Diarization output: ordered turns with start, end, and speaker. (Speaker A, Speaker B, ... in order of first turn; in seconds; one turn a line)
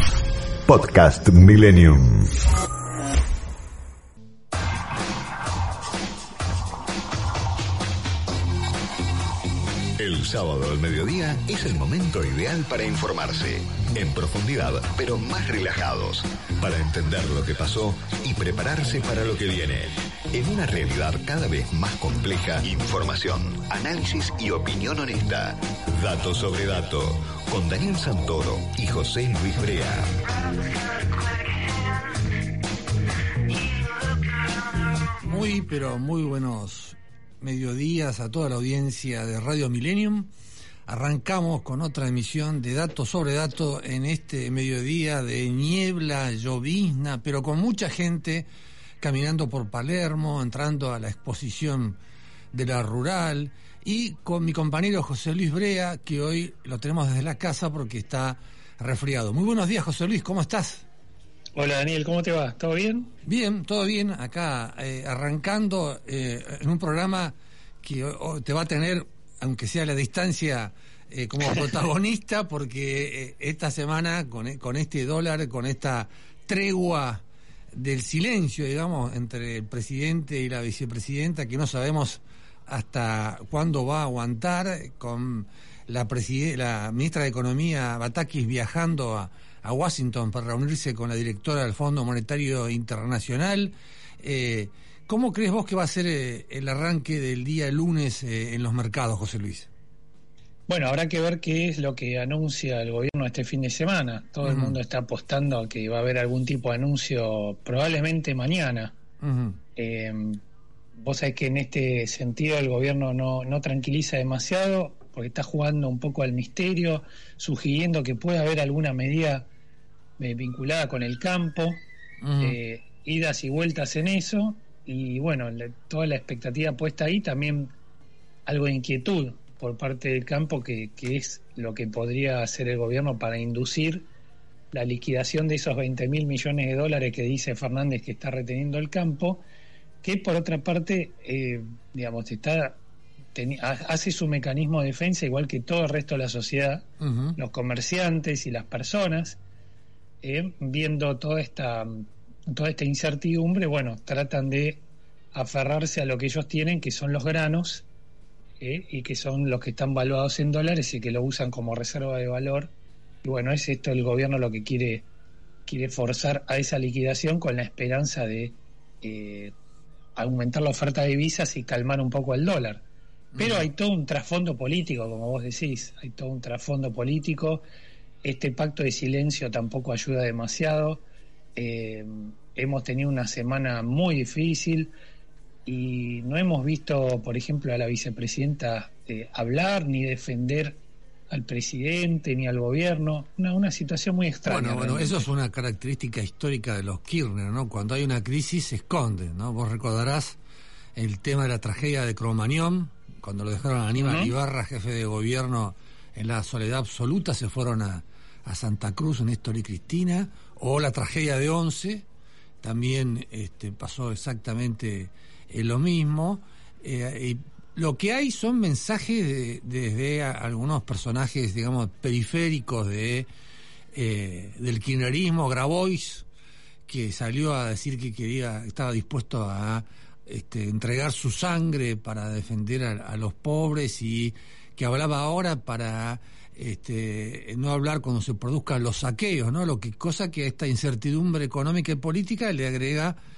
Speaker A: 0.7-2.4
Speaker A: 10.0-30.2
Speaker B: 35.2-40.3
Speaker B: 40.9-48.5
Speaker B: 49.0-52.0
Speaker B: 52.5-60.8
Speaker C: 61.5-63.1
Speaker B: 63.2-99.7
Speaker C: 71.4-71.7
Speaker C: 100.7-108.9
Speaker B: 104.4-104.8
Speaker B: 109.2-109.6
Speaker C: 109.8-110.4
Speaker C: 111.0-119.5
Speaker C: 120.2-121.8
Speaker B: 122.2-122.6
Speaker C: 122.4-127.7
Speaker C: 128.4-134.1
Speaker C: 134.7-139.4
Speaker C: 140.0-142.8
Speaker C: 143.3-149.4
Speaker B: 147.0-147.4
Speaker C: 150.2-157.8
Speaker C: 158.6-162.7
Speaker C: 163.2-165.1
Speaker C: 165.7-169.5
Speaker C: 170.2-172.8
Speaker B: 173.3-173.7
Speaker C: 173.4-177.6
Speaker C: 178.2-181.0
Speaker C: 181.6-184.9
Speaker C: 185.7-195.3
Speaker B: 194.4-200.4
Speaker B: 200.9-212.0
Speaker C: 204.0-204.3
Speaker B: 212.6-223.3
Speaker B: 223.9-226.2
Speaker B: 226.9-243.2